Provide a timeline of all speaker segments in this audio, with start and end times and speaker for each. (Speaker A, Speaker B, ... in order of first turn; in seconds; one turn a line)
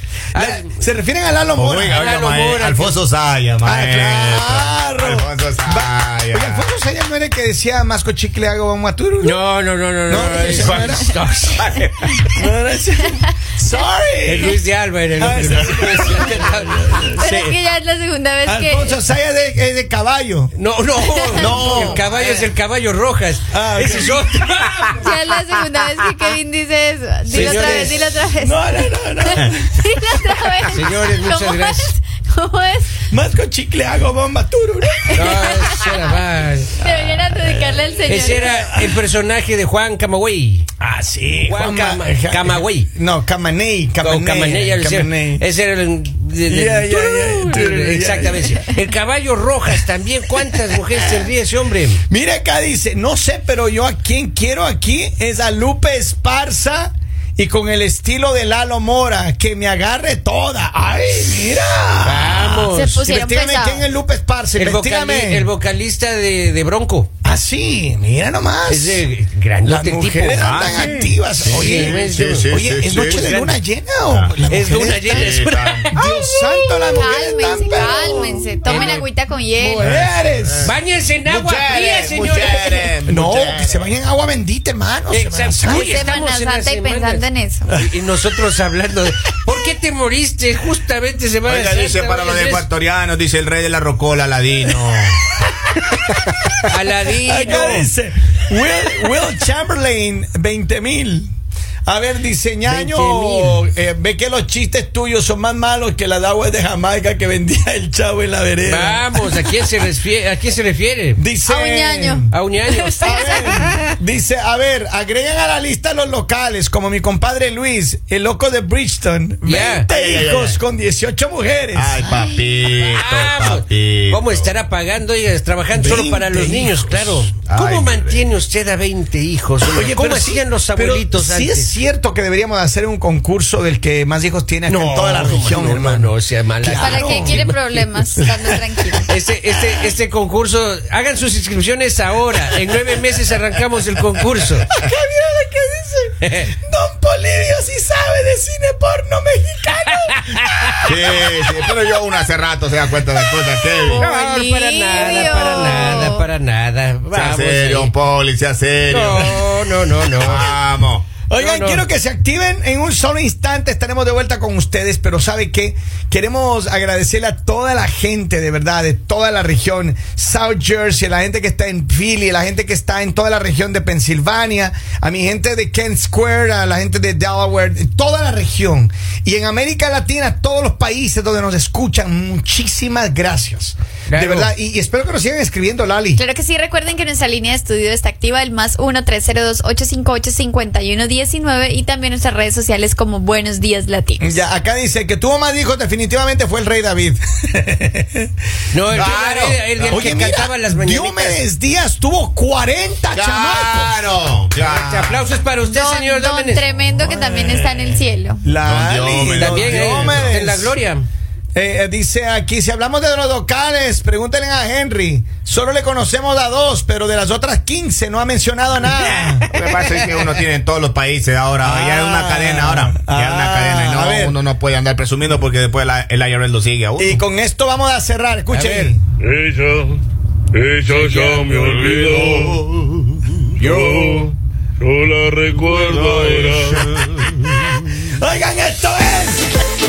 Speaker A: 0.3-0.7
Speaker B: 0.3-2.1
Speaker C: 1.6-6.7
Speaker A: 1.9-3.0
Speaker B: 3.6-9.4
Speaker A: 9.2-11.8
Speaker B: 10.1-11.2
Speaker C: 11.6-12.2
Speaker B: 12.3-14.6
Speaker A: 14.2-17.6
Speaker B: 15.2-17.3
Speaker D: 17.2-19.0
Speaker B: 18.4-20.5
Speaker A: 20.6-25.1
Speaker D: 21.0-21.9
Speaker C: 21.3-22.5
Speaker B: 23.5-24.2
Speaker D: 24.9-33.0
Speaker B: 27.3-30.5
Speaker A: 27.3-28.0
Speaker A: 30.7-31.9
Speaker B: 33.1-35.8
Speaker A: 35.1-36.8
Speaker D: 36.8-38.6
Speaker B: 36.8-39.0
Speaker A: 38.0-40.7
Speaker B: 40.8-45.5
Speaker A: 41.5-42.9
Speaker A: 44.0-52.0
Speaker B: 46.5-48.7
Speaker B: 50.4-51.3
Speaker B: 52.1-65.5
Speaker A: 62.0-63.1
Speaker D: 62.7-63.9
Speaker A: 64.6-67.1
Speaker B: 67.2-69.0
Speaker A: 68.7-73.6
Speaker B: 69.6-79.0
Speaker C: 70.4-73.3
Speaker C: 74.1-76.0
Speaker A: 74.5-76.1
Speaker D: 76.9-79.9
Speaker A: 78.7-79.1
Speaker A: 79.6-80.0
Speaker B: 79.8-80.7
Speaker C: 79.8-84.0
Speaker A: 80.6-82.9
Speaker B: 83.0-86.0
Speaker A: 85.1-92.7
Speaker D: 85.6-87.7
Speaker C: 91.5-95.2
Speaker A: 96.7-97.9
Speaker B: 97.2-101.3
Speaker B: 101.9-109.7
Speaker A: 102.7-103.7
Speaker A: 108.7-111.2
Speaker B: 111.2-112.3
Speaker D: 111.5-113.7
Speaker A: 112.3-113.8
Speaker B: 113.0-122.3
Speaker A: 119.4-119.9
Speaker C: 119.9-120.6
Speaker C: 121.7-124.5
Speaker A: 122.7-131.7
Speaker B: 125.8-127.3
Speaker C: 127.5-128.3
Speaker B: 129.7-139.8
Speaker A: 134.7-137.9
Speaker D: 136.7-139.1
Speaker A: 139.1-144.7
Speaker B: 144.7-151.6
Speaker A: 146.2-146.5
Speaker A: 150.1-150.8
Speaker C: 150.8-154.1
Speaker D: 153.9-156.3
Speaker A: 154.0-157.9
Speaker C: 157.1-161.1
Speaker A: 158.9-160.5
Speaker B: 160.2-160.4
Speaker B: 161.3-186.2
Speaker A: 161.3-161.8
Speaker A: 184.1-184.5
Speaker D: 186.2-194.4
Speaker B: 194.2-198.3
Speaker A: 198.7-201.4
Speaker C: 198.9-200.2
Speaker B: 199.9-204.1
Speaker C: 203.1-205.2
Speaker A: 204.6-206.7
Speaker D: 205.6-208.4
Speaker B: 207.0-207.7
Speaker B: 208.4-210.4
Speaker C: 208.6-210.8
Speaker A: 209.3-211.1
Speaker B: 211.6-219.5
Speaker A: 218.9-220.1
Speaker C: 219.5-227.2
Speaker B: 221.6-224.4
Speaker B: 227.0-229.0
Speaker A: 228.5-228.9
Speaker E: 229.2-230.0
Speaker E: 230.6-232.5
Speaker A: 230.8-231.9
Speaker C: 231.7-234.2
Speaker E: 233.8-234.1
Speaker E: 234.8-236.8
Speaker C: 235.7-237.6
Speaker B: 238.0-239.6